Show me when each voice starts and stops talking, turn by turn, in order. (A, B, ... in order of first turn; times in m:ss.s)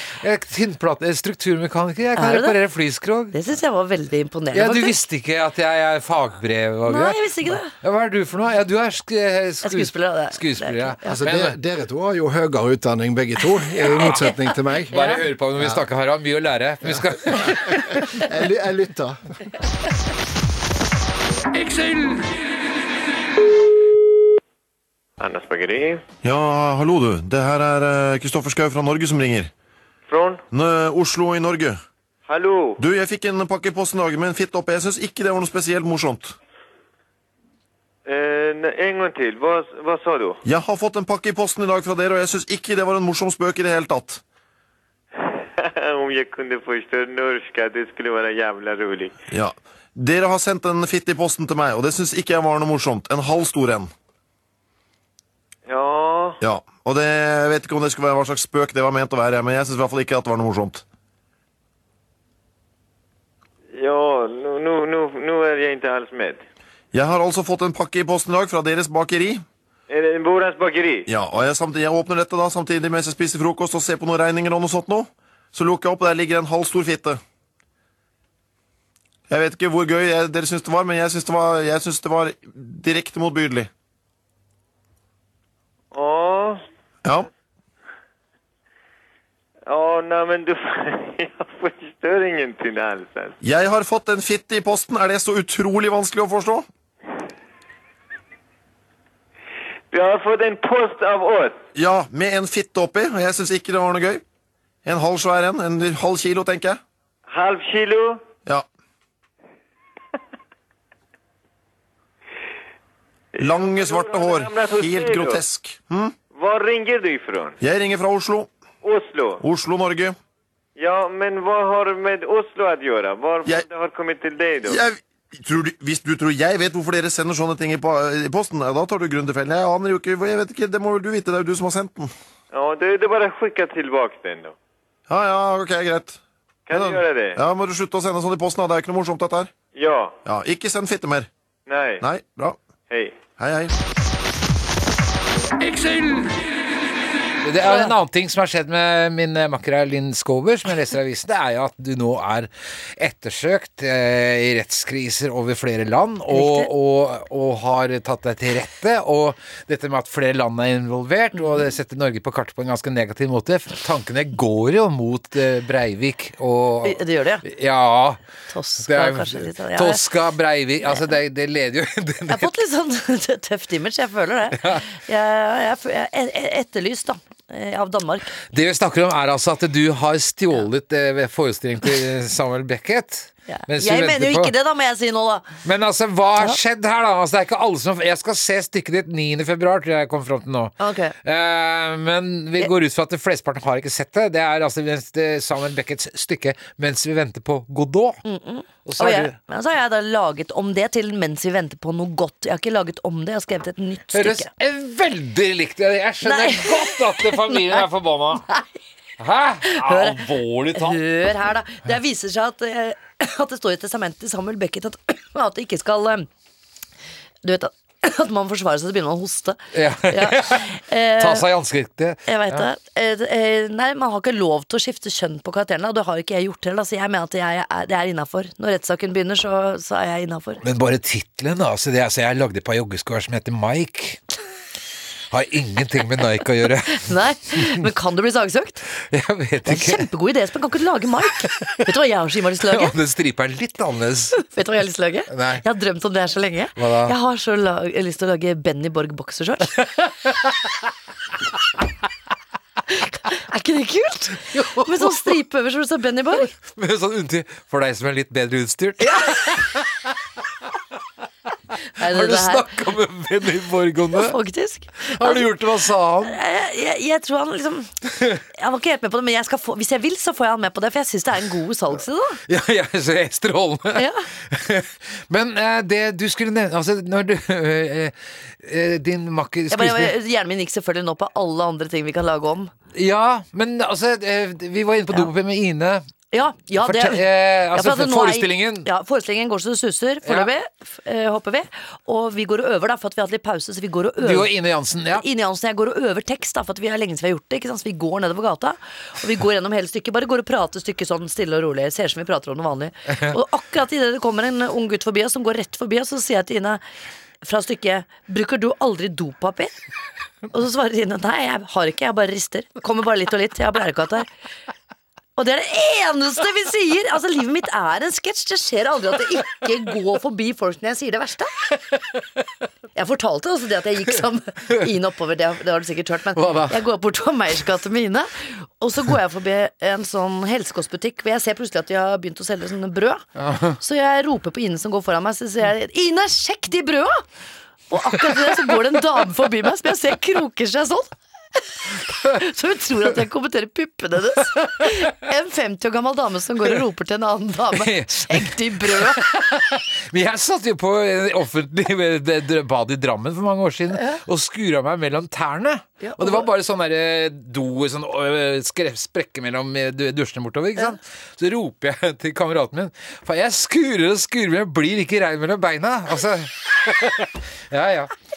0:00.2-0:03.4 A
0:02.2-0:02.6 B
0:03.3-0:05.0 B
0:04.5-0:11.6 A
0:06.8-0:07.7 B
0:09.6-0:11.2 B
0:11.1-0:14.9 C
0:14.0-0:14.3 A
0:14.9-0:15.2 B
0:14.9-0:18.2 A
0:15.6-0:15.8 C
0:16.8-0:19.2 C
0:25.2-0:26.0 D
0:26.2-0:29.5 E
0:30.1-0:30.4 D
0:30.5-0:31.8 E
0:32.2-0:32.8 D
0:32.8-0:36.4 E
0:38.0-0:40.4 D
0:40.4-0:44.2 E
0:45.2-0:49.1 D
0:49.3-0:53.9 E
0:55.7-0:56.4 D
0:56.4-1:00.8 E
1:03.7-1:06.4 D
1:06.9-1:09.4 E
1:09.9-1:11.1 D
1:11.1-1:17.2 E
1:19.3-1:23.7 E
1:25.9-1:26.6 D
1:29.7-1:33.4 D
1:33.4-1:36.7 E
1:39.9-1:41.6 D
1:41.7-1:44.2 E
1:44.8-1:46.8 E
1:47.3-1:48.2 D
1:53.4-1:55.4 D
1:53.4-1:56.1 E
1:56.3-1:57.6 D
1:57.6-1:58.5 E
1:58.8-1:59.4 D
1:59.4-2:00.2 E
2:00.8-2:04.8 D
2:04.6-2:12.1 E
2:12.5-2:14.5 D
2:15.1-2:16.2 E
2:16.7-2:17.4 D
2:16.7-2:19.5 E
2:19.7-2:20.2 D
2:20.2-2:21.3 E
2:21.7-2:22.0 D
2:22.0-2:22.6 E
2:22.9-2:23.2 D
2:23.4-2:23.8 E
2:27.4-2:48.2 A
2:27.6-2:27.9 B
2:36.3-2:36.7 B
2:46.8-2:47.4 B
2:48.5-2:50.0 B
2:48.8-2:52.6 A
2:52.3-2:58.4 B
2:54.5-2:54.9 A
2:58.5-3:04.5 A
3:03.5-3:05.5 B
3:05.6-3:18.2 A
3:10.8-3:11.1 B
3:18.2-3:24.5 B
3:18.8-3:19.4 A
3:24.1-3:28.5 A
3:26.2-3:27.8 B
3:29.2-3:31.0 A
3:29.6-3:36.3 B
3:37.4-3:41.4 B
3:39.7-3:42.6 A
3:42.3-3:50.6 B
3:50.6-3:54.2 A
3:55.3-3:57.8 A
3:56.9-3:58.8 B
3:59.0-4:00.1 A
3:59.6-4:02.9 B
4:01.6-4:01.9 A
4:02.6-4:04.4 A
4:04.3-4:09.8 B
4:05.3-4:05.6 A
4:06.8-4:07.1 A
4:09.8-4:10.7 A
4:12.9-4:16.5 B
4:14.5-4:15.3 A
4:16.5-4:20.1 A
4:19.0-4:19.6 B
4:22.0-4:22.7 B
4:22.0-4:24.4 A
4:24.1-4:25.5 B
4:25.0-4:26.4 A
4:26.2-4:27.9 B
4:28.5-4:32.4 B
4:32.5-4:40.1 A
4:33.9-4:34.3 B
4:39.7-4:42.7 B
4:42.9-4:46.1 A
4:46.3-4:54.5 B
4:46.8-4:48.9 A
4:50.2-4:50.5 A
4:54.2-4:55.2 A
4:55.2-5:06.8 B
5:07.4-5:09.8 B
5:10.5-5:14.3 B
5:15.4-5:21.7 B
5:22.9-5:33.2 B
5:26.3-5:26.8 A
5:33.4-5:33.8 A
5:33.8-5:37.2 B
5:37.9-5:49.3 B
5:38.2-5:38.7 A
5:47.7-6:08.1 A
5:53.9-5:54.2 B
5:56.0-5:56.4 B